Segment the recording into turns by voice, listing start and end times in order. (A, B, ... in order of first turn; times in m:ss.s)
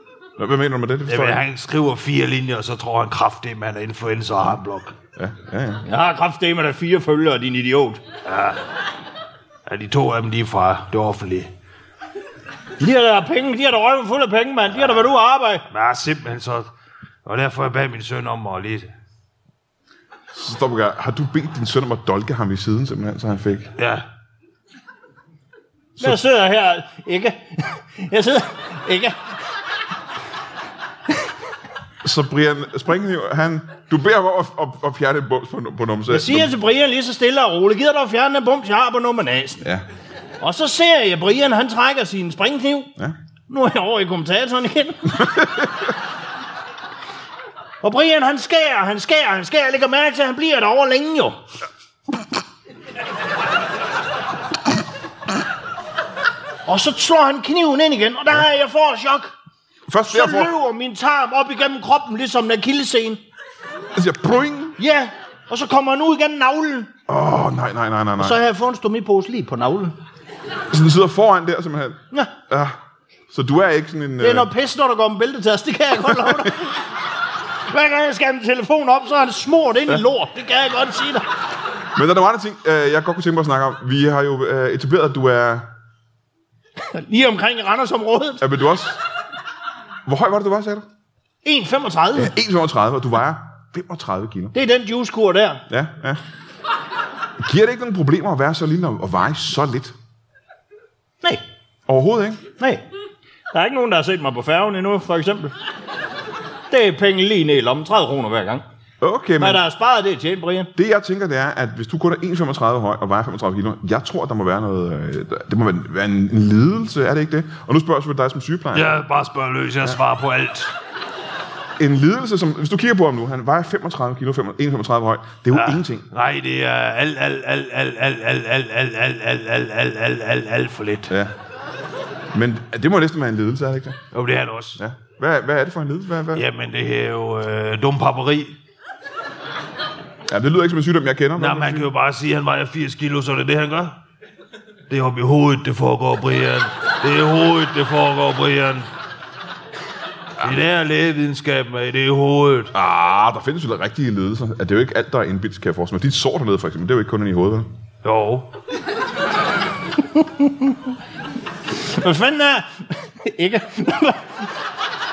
0:00.4-0:01.4 A
0:01.1-0:04.9 B
0:05.2-0:05.8 A
0:05.8-0:08.0 C
0:08.2-0:08.6 B
0:09.7-0:11.5 B
0:12.8-0:15.6 C
0:15.7-0:16.7 B
0:17.2-0:18.9 B
0:20.3-0:23.7 A
0:23.8-0:24.0 B
0:26.0-0:29.2 C
0:32.0-0:36.5 A
0:36.1-0:39.6 C
0:40.4-0:42.9 C
0:43.5-0:45.2 C
0:45.1-0:45.9 A
0:47.8-0:51.4 C
0:56.6-0:59.3 C
0:59.9-1:00.5 A
1:00.1-1:03.2 C
1:03.9-1:04.8 A
1:04.8-1:06.9 C
1:07.1-1:08.4 A
1:08.2-1:09.9 C
1:10.7-1:12.0 A
1:12.5-1:12.8 A
1:13.3-1:14.5 A
1:14.2-1:16.8 C
1:16.1-1:16.5 A
1:17.6-1:21.2 C
1:21.9-1:25.7 A
1:26.9-1:28.5 C
1:28.4-1:29.0 A
1:30.0-1:30.8 A
1:31.4-1:32.3 C
1:32.1-1:34.5 A
1:34.5-1:35.6 C
1:35.7-1:36.2 A
1:37.4-1:39.9 A
1:41.9-1:42.4 A
1:42.6-1:42.8 C
1:43.5-1:45.5 C
1:46.7-1:48.6 C
1:49.0-1:49.6 A
1:49.4-1:50.7 C
1:50.8-1:59.0 A
1:58.7-2:00.7 B
2:01.8-2:06.0 A
2:05.5-2:11.1 B
2:12.3-2:14.0 A
2:14.1-2:14.8 B
2:14.8-2:16.4 A
2:16.3-2:18.5 B
2:20.3-2:21.9 A
2:21.4-2:24.0 B
2:24.9-2:28.9 B
2:30.4-2:32.7 B
2:32.7-2:37.7 A
2:38.0-2:38.5 B
2:40.1-2:40.7 C
2:41.8-2:44.4 C